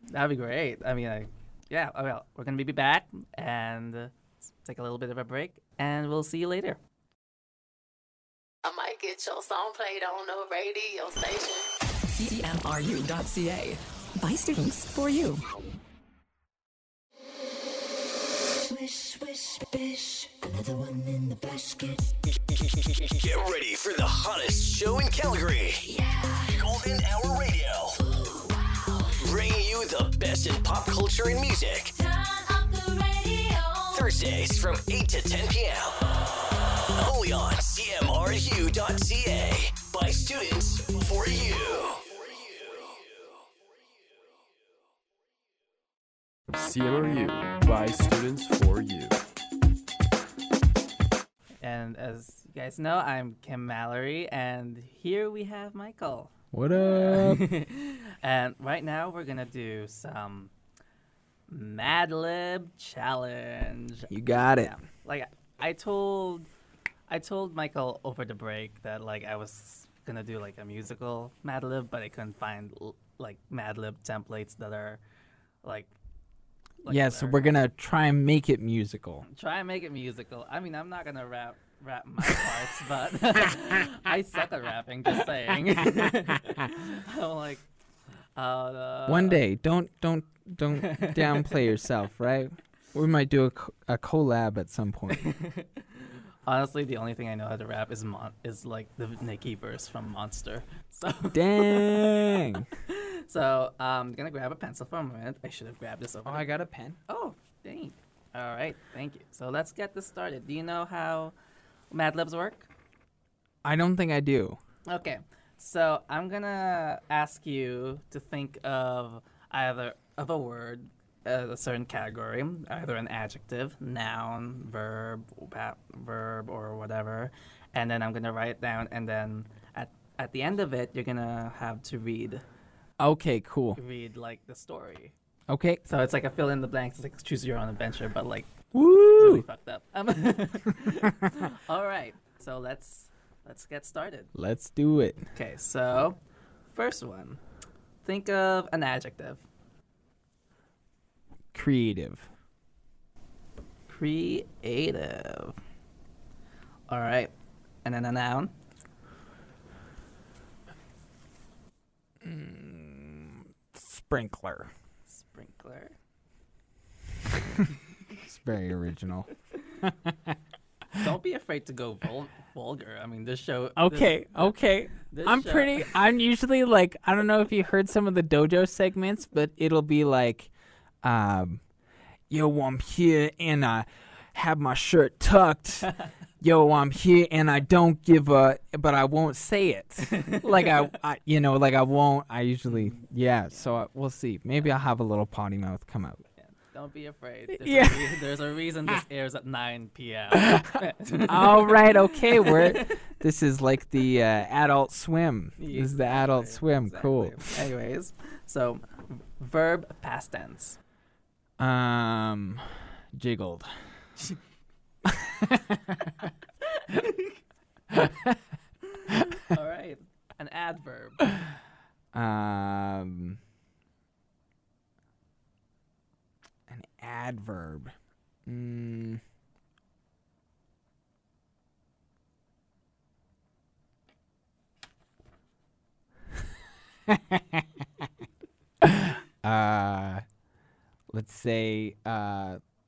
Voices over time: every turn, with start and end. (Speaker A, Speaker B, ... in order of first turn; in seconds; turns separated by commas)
Speaker A: 0.1-4.1, Speaker A: 4.6-6.8, Speaker B: 8.7-11.6, Speaker C: 12.1-15.4, Speaker D: 18.6-22.1, Speaker E: 22.4-25.9, Speaker D: 25.8-26.6, Speaker E: 26.4-28.0, Speaker D: 28.0-29.2, Speaker E: 29.1-31.9, Speaker D: 31.9-34.1, Speaker E: 33.9-36.1, Speaker E: 36.9-43.0, Speaker F: 46.5-49.2, Speaker A: 51.6-60.5, Speaker G: 56.5-57.5, Speaker A: 61.5-66.5, Speaker G: 64.1-64.8, Speaker A: 67.1-75.0, Speaker A: 75.6-75.9, Speaker A: 76.8-77.5, Speaker G: 76.8-79.2, Speaker A: 79.2-87.7, Speaker A: 88.4-89.4, Speaker G: 89.1-95.3, Speaker A: 90.7-91.6, Speaker A: 95.2-102.4, Speaker G: 101.3-102.7, Speaker A: 102.9-106.6, Speaker G: 106.2-107.0, Speaker A: 107.1-111.3, Speaker A: 111.9-112.7, Speaker G: 113.6-114.6, Speaker A: 114.9-132.4, Speaker G: 133.0-133.8, Speaker A: 133.8-135.1, Speaker G: 135.5-135.8, Speaker A: 135.8-138.5, Speaker G: 138.7-139.5, Speaker A: 139.2-144.3, Speaker G: 144.3-145.3, Speaker A: 145.3-147.4, Speaker A: 148.0-149.4, Speaker G: 151.5-152.3, Speaker A: 153.9-155.6, Speaker A: 156.9-157.3, Speaker A: 157.8-158.5, Speaker G: 162.2-164.7, Speaker A: 165.1-165.9, Speaker G: 168.1-169.3, Speaker G: 169.8-170.4, Speaker A: 170.9-176.0, Speaker G: 173.8-180.5, Speaker G: 181.0-181.6, Speaker G: 182.3-196.2, Speaker A: 190.3-190.8, Speaker A: 192.7-193.0, Speaker A: 196.4-202.9, Speaker G: 197.5-198.2, Speaker G: 201.3-207.7, Speaker A: 205.6-210.8, Speaker G: 211.6-214.1, Speaker G: 215.1-216.0, Speaker A: 216.6-217.4, Speaker G: 217.9-218.4, Speaker A: 219.0-221.4, Speaker G: 222.1-223.4, Speaker G: 226.7-227.9, Speaker G: 228.5-229.2, Speaker G: 237.1-237.8, Speaker G: 238.8-240.2, Speaker G: 241.1-242.6